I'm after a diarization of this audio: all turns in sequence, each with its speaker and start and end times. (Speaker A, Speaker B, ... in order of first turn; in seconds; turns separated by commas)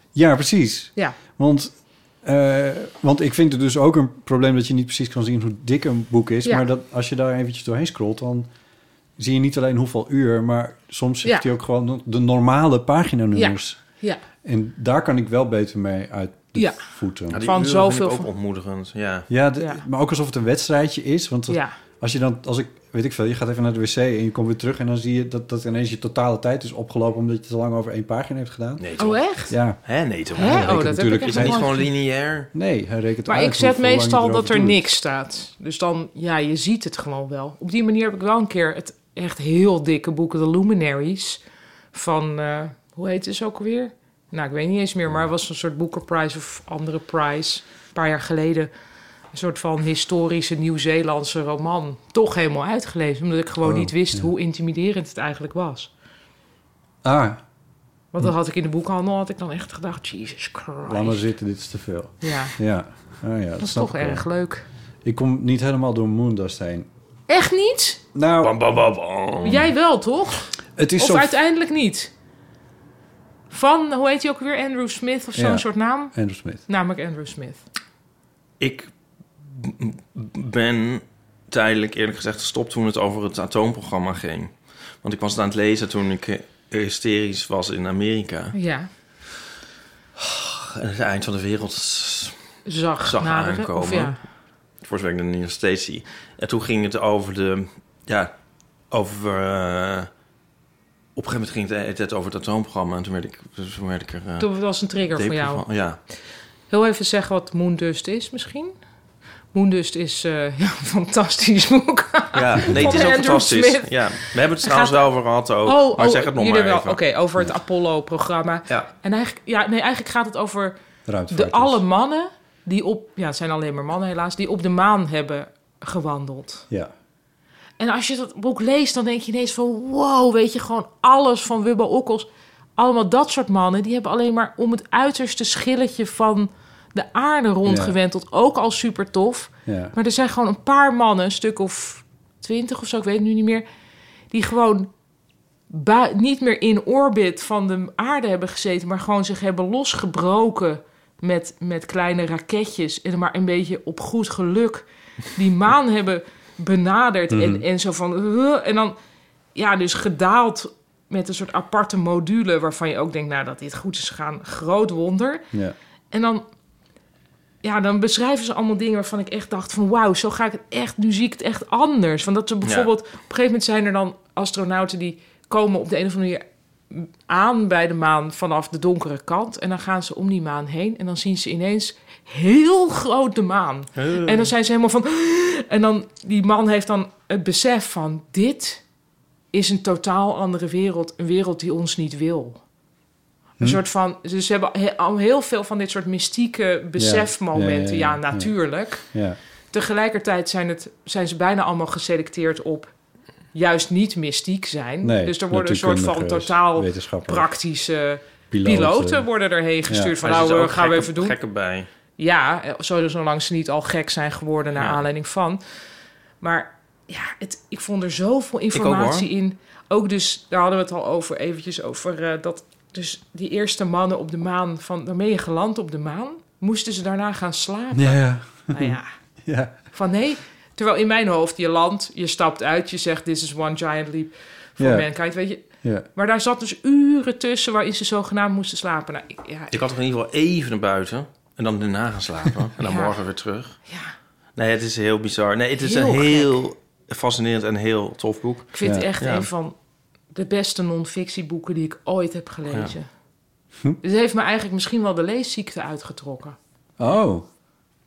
Speaker A: 0.1-8.5, Speaker A: 9.2-13.8, Speaker B: 13.3-14.2, Speaker A: 14.4-17.4, Speaker B: 16.6-16.8, Speaker C: 17.3-19.3, Speaker B: 17.4-18.3, Speaker A: 19.3-28.8, Speaker B: 21.5-21.7, Speaker C: 28.8-29.2, Speaker B: 29.0-29.5, Speaker A: 29.5-29.8, Speaker C: 29.8-32.5, Speaker B: 30.3-31.9, Speaker A: 30.4-31.6, Speaker A: 32.5-34.8, Speaker B: 33.3-41.4, Speaker B: 41.9-48.7, Speaker B: 49.3-55.9, Speaker A: 53.6-54.3, Speaker A: 57.0-57.4, Speaker B: 58.1-61.2, Speaker A: 60.9-64.3, Speaker B: 62.2-62.5, Speaker B: 63.6-64.6, Speaker A: 65.0-66.9, Speaker B: 67.3-68.0, Speaker A: 68.1-68.5, Speaker C: 68.4-69.7, Speaker B: 69.4-72.1, Speaker A: 70.8-71.3, Speaker B: 73.5-76.1, Speaker A: 75.3-76.6, Speaker B: 76.7-77.6, Speaker C: 78.6-78.9, Speaker C: 79.5-84.5, Speaker C: 85.0-88.5, Speaker B: 88.5-88.9, Speaker C: 90.2-92.3, Speaker B: 92.7-94.2, Speaker C: 93.1-94.2, Speaker C: 94.8-98.3, Speaker C: 98.9-100.1, Speaker C: 101.2-104.5, Speaker B: 104.4-105.6, Speaker C: 105.1-106.0, Speaker B: 106.7-108.7, Speaker B: 109.5-115.0, Speaker C: 112.3-117.0, Speaker A: 112.7-113.0, Speaker B: 115.7-120.8, Speaker A: 121.1-121.8, Speaker B: 121.3-126.7, Speaker B: 127.8-143.6, Speaker A: 137.6-137.9, Speaker A: 139.7-139.9, Speaker B: 144.3-144.9, Speaker B: 145.7-158.9, Speaker A: 157.3-157.6, Speaker B: 159.5-165.4, Speaker B: 166.1-166.4, Speaker B: 167.6-188.8, Speaker C: 183.9-184.5, Speaker B: 189.5-192.6, Speaker B: 193.6-199.1, Speaker A: 197.0-198.5, Speaker A: 199.1-199.4, Speaker B: 199.7-202.9, Speaker B: 203.5-211.4, Speaker A: 205.0-207.5, Speaker A: 208.5-209.2, Speaker A: 209.9-210.1, Speaker C: 210.2-211.9, Speaker B: 212.2-215.6, Speaker B: 216.4-229.1, Speaker C: 218.7-219.3, Speaker A: 227.9-229.7, Speaker B: 229.9-239.8, Speaker A: 234.8-235.1, Speaker A: 235.8-236.1, Speaker C: 239.7-243.8, Speaker B: 242.8-243.2, Speaker B: 243.9-244.1, Speaker C: 244.6-249.5, Speaker B: 245.8-246.5, Speaker B: 248.7-249.7, Speaker B: 250.3-253.1, Speaker B: 254.0-256.6, Speaker A: 257.0-257.4